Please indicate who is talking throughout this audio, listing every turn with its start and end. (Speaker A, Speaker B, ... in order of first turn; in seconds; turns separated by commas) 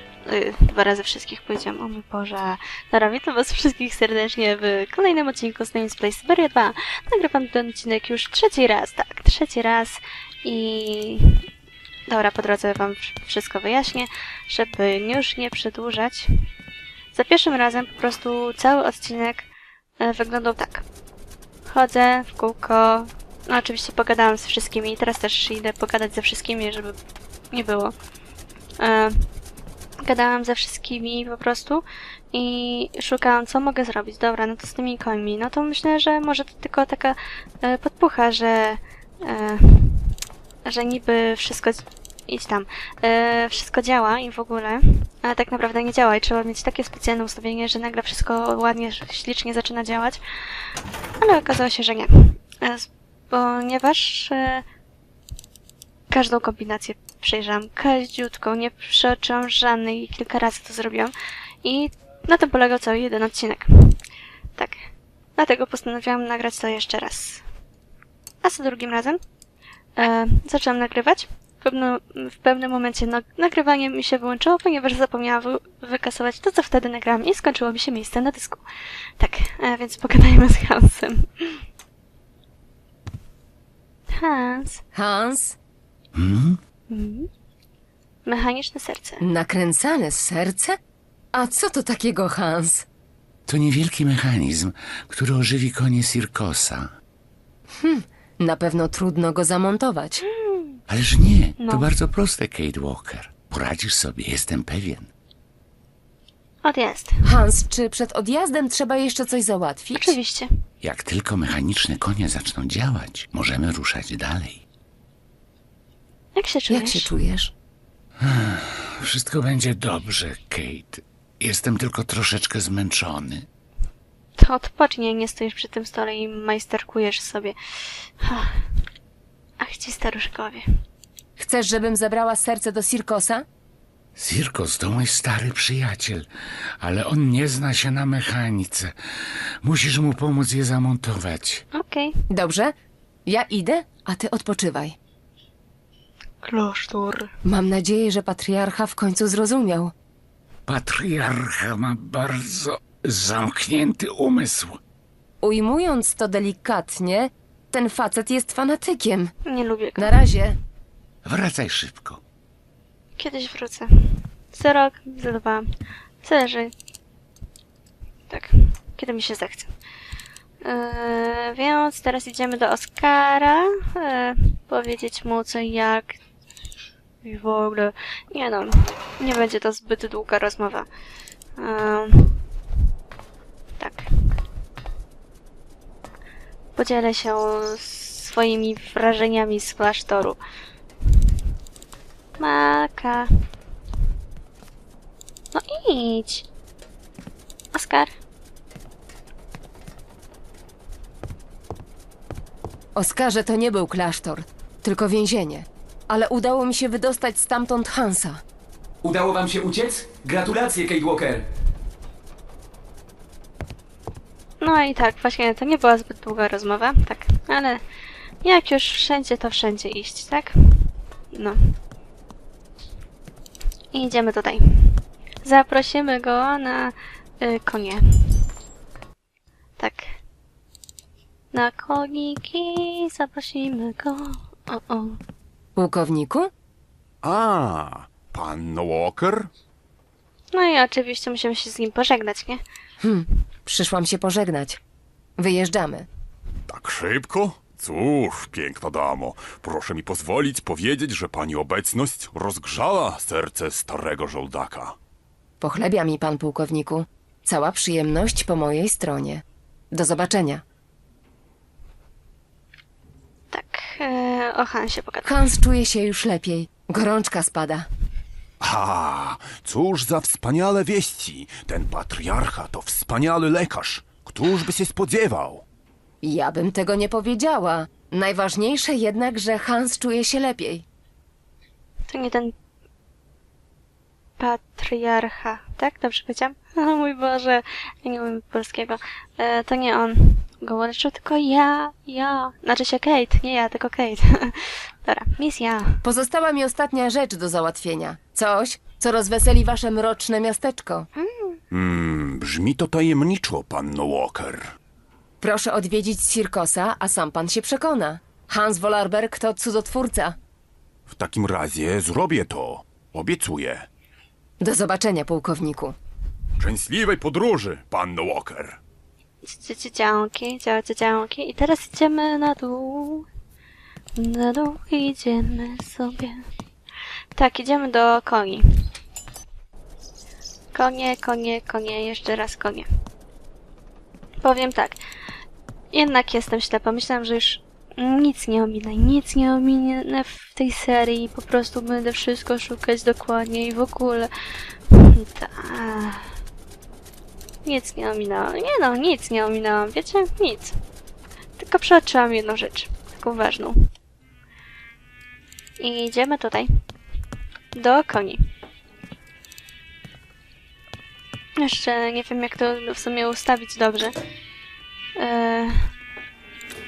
Speaker A: 0.2-11.3, Speaker A: 12.1-16.3, Speaker A: 17.1-19.5, Speaker A: 20.0-20.8, Speaker A: 21.7-26.9, Speaker A: 27.5-27.9, Speaker A: 28.8-29.3, Speaker A: 30.0-40.1, Speaker A: 40.6-50.6, Speaker A: 51.2-54.6, Speaker A: 56.1-64.0, Speaker A: 64.6-67.4, Speaker A: 68.4-69.2, Speaker A: 70.0-78.7, Speaker A: 79.2-81.6, Speaker A: 84.1-84.8, Speaker B: 84.9-85.6, Speaker C: 86.2-86.6, Speaker A: 86.9-87.3, Speaker A: 88.2-89.2, Speaker B: 89.2-90.8, Speaker B: 91.3-92.9, Speaker C: 93.5-96.9, Speaker B: 97.8-100.2, Speaker A: 100.2-100.8, Speaker C: 100.9-105.1, Speaker A: 101.6-101.9, Speaker A: 106.6-107.4, Speaker B: 107.2-110.2, Speaker A: 110.0-110.5, Speaker C: 110.8-114.6, Speaker A: 116.3-117.1, Speaker B: 116.7-117.5, Speaker C: 118.2-123.5, Speaker A: 124.4-128.6, Speaker A: 129.6-130.6, Speaker B: 131.4-133.4, Speaker C: 134.2-136.3, Speaker C: 136.8-138.9, Speaker C: 139.6-141.6, Speaker A: 141.7-142.2, Speaker B: 142.3-142.7, Speaker B: 143.2-145.0, Speaker A: 146.4-147.3, Speaker B: 147.4-149.9, Speaker C: 150.7-154.8, Speaker B: 155.4-159.3, Speaker A: 159.4-160.3, Speaker B: 160.0-160.6, Speaker C: 161.2-162.2, Speaker A: 163.2-165.6, Speaker A: 166.2-166.7, Speaker A: 168.3-169.7, Speaker A: 170.6-176.2, Speaker A: 177.2-180.9, Speaker A: 181.6-182.4, Speaker A: 183.8-184.1, Speaker A: 186.8-190.4, Speaker A: 192.4-193.3, Speaker A: 195.5-196.4, Speaker A: 197.7-198.1, Speaker B: 202.9-208.4, Speaker D: 209.0-211.4, Speaker A: 214.6-217.8, Speaker A: 218.4-220.5, Speaker A: 221.3-221.7, Speaker A: 223.9-228.4, Speaker A: 229.8-230.2, Speaker A: 231.5-235.2, Speaker B: 235.8-236.5, Speaker E: 237.2-239.5, Speaker A: 240.5-242.6, Speaker B: 243.0-244.8, Speaker B: 245.4-246.1, Speaker E: 246.7-254.9, Speaker B: 255.6-260.6, Speaker A: 263.5-265.5, Speaker B: 265.2-267.9, Speaker E: 268.6-275.6, Speaker B: 276.2-280.9, Speaker A: 282.1-282.5, Speaker A: 284.4-296.0, Speaker B: 296.0-301.1, Speaker A: 301.1-301.6, Speaker E: 301.7-304.7, Speaker B: 305.4-310.4, Speaker E: 311.1-313.9, Speaker B: 314.6-315.9, Speaker E: 316.6-318.8, Speaker A: 319.4-323.2, Speaker A: 324.2-326.4, Speaker A: 327.3-328.9, Speaker A: 330.7-332.9, Speaker A: 334.4-335.0, Speaker A: 335.9-344.3, Speaker A: 344.9-346.3, Speaker A: 347.6-350.8, Speaker A: 351.6-353.8, Speaker A: 355.8-356.7, Speaker A: 357.8-358.4, Speaker A: 361.6-364.1, Speaker A: 365.2-365.9